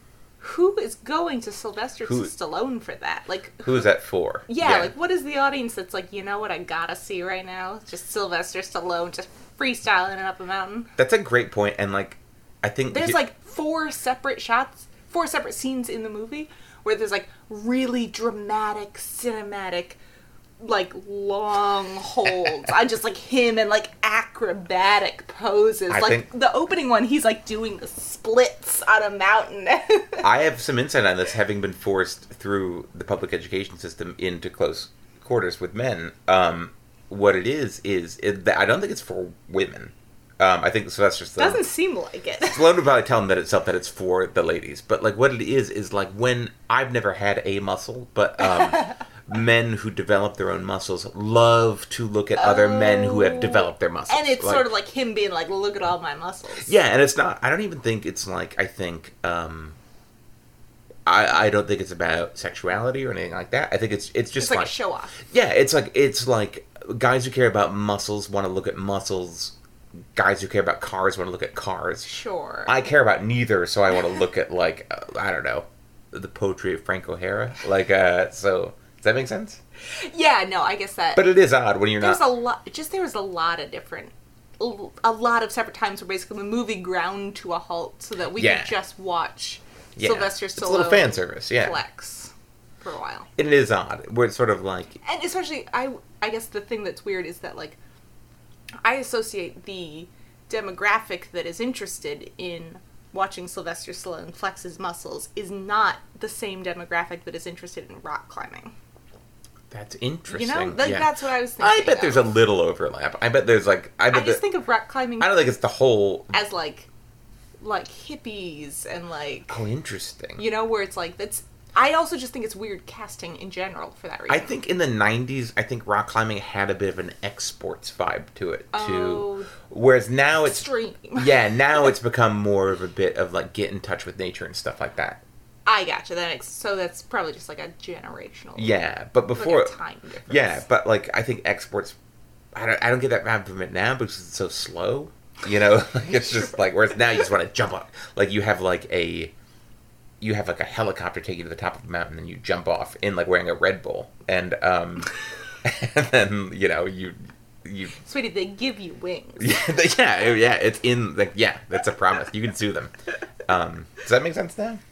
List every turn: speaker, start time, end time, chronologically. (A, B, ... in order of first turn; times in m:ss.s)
0:00.4-0:03.9 A
0:02.0-0:02.3 B
0:03.6-0:04.9 B
0:04.5-0:10.9 A
0:11.0-0:13.2 B
0:12.9-0:20.0 A
0:20.6-0:30.3 A
0:25.9-0:26.3 B
0:30.2-0:41.6 B
0:41.4-0:42.7 A
0:42.4-0:54.7 B
0:48.4-0:49.0 A
0:52.4-0:56.7 A
0:56.6-0:59.8 B
1:01.1-1:09.6 B
1:04.4-1:05.2 A
1:10.2-1:12.1 B
1:12.0-1:12.8 A
1:12.7-1:19.6 B
1:19.9-1:21.3 A
1:21.2-1:22.2 B
1:22.0-1:33.3 A
1:28.4-1:28.7 B
1:30.0-1:31.8 B
1:33.4-1:35.0 B
1:35.0-1:37.8 A
1:38.8-1:48.7 A
1:49.7-1:54.4 B
1:50.3-1:52.3 A
1:54.1-1:55.4 A
1:55.2-1:56.3 B
1:56.3-1:56.9 A
1:57.6-1:59.6 A
1:59.5-2:00.4 B
2:00.4-2:04.5 A
2:04.3-2:15.2 B
2:08.7-2:09.5 A
2:10.4-2:11.9 A
2:15.7-2:18.8 A
2:18.6-2:19.7 B
2:19.3-2:20.6 A
2:20.3-2:22.0 B
2:22.6-2:29.3 B
2:30.2-2:38.0 B
2:38.0-2:39.6 A
2:39.4-2:42.9 B
2:43.4-2:44.8 B